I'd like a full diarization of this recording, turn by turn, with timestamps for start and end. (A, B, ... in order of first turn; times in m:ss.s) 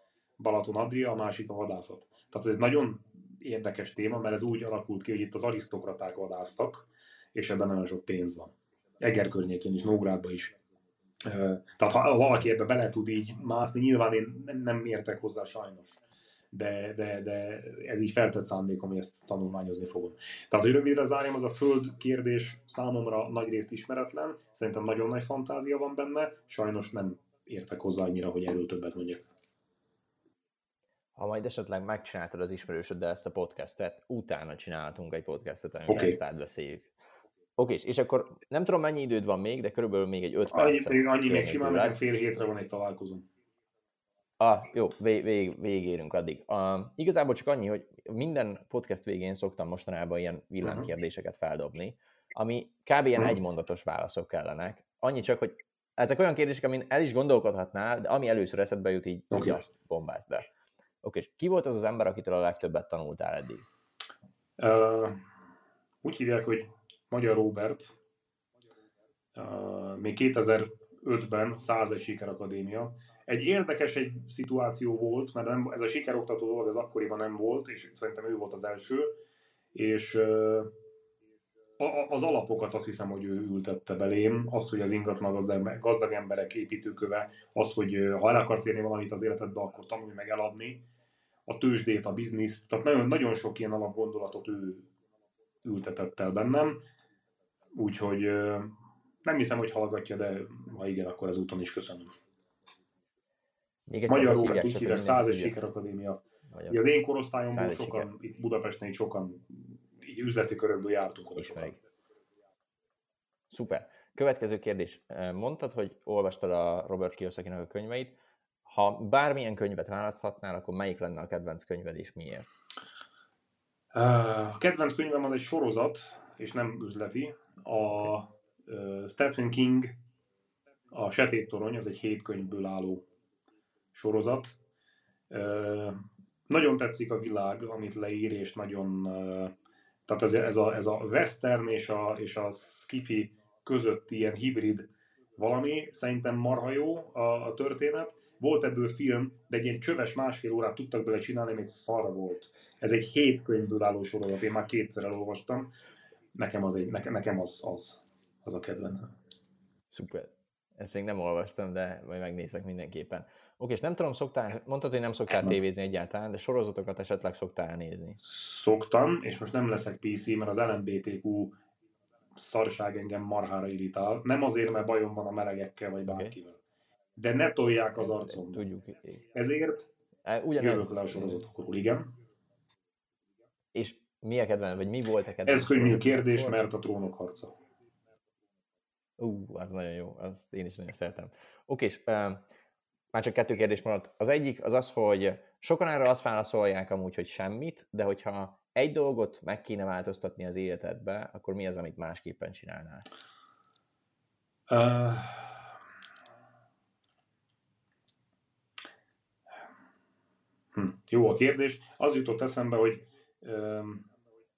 0:00.4-0:10.6 A
0:11.2-0:16.0 A
0:16.5-0:29.3 A
0:31.2-0:36.9 B
0:35.9-0:36.2 A
0:37.6-0:42.0 B
0:40.5-0:43.3 A
0:44.4-1:00.5 B
0:50.6-0:50.9 A
0:59.3-0:59.6 A
1:01.0-1:03.6 B
1:04.6-1:05.2 A
1:06.0-1:08.0 A
1:09.3-1:19.2 A
1:19.7-1:20.7 A
1:21.8-1:30.8 A
1:31.5-1:34.9 A
1:35.6-1:36.8 A
1:37.7-1:38.7 A
1:39.2-1:42.1 A
1:43.9-1:45.5 B
1:44.1-1:51.8 A
1:46.5-1:46.8 B
1:47.5-1:48.1 B
1:51.4-1:51.7 B
1:53.5-2:02.5 B
2:03.9-2:10.0 A
2:10.9-2:13.1 A
2:13.9-2:14.6 A
2:15.3-2:19.5 A
2:20.1-2:35.7 A
2:36.4-2:39.1 A
2:39.9-2:48.2 B
2:48.2-2:51.6 A
2:52.4-2:56.6 A
2:56.1-2:56.3 B
2:57.2-2:58.7 A
2:58.0-2:59.2 B
2:59.3-2:59.9 A
3:00.2-3:01.4 B
3:00.6-3:02.1 A
3:03.7-3:06.6 B
3:05.4-3:07.5 A
3:09.2-3:12.4 B
3:13.1-3:23.0 B
3:24.7-3:25.6 A
3:30.7-3:34.1 A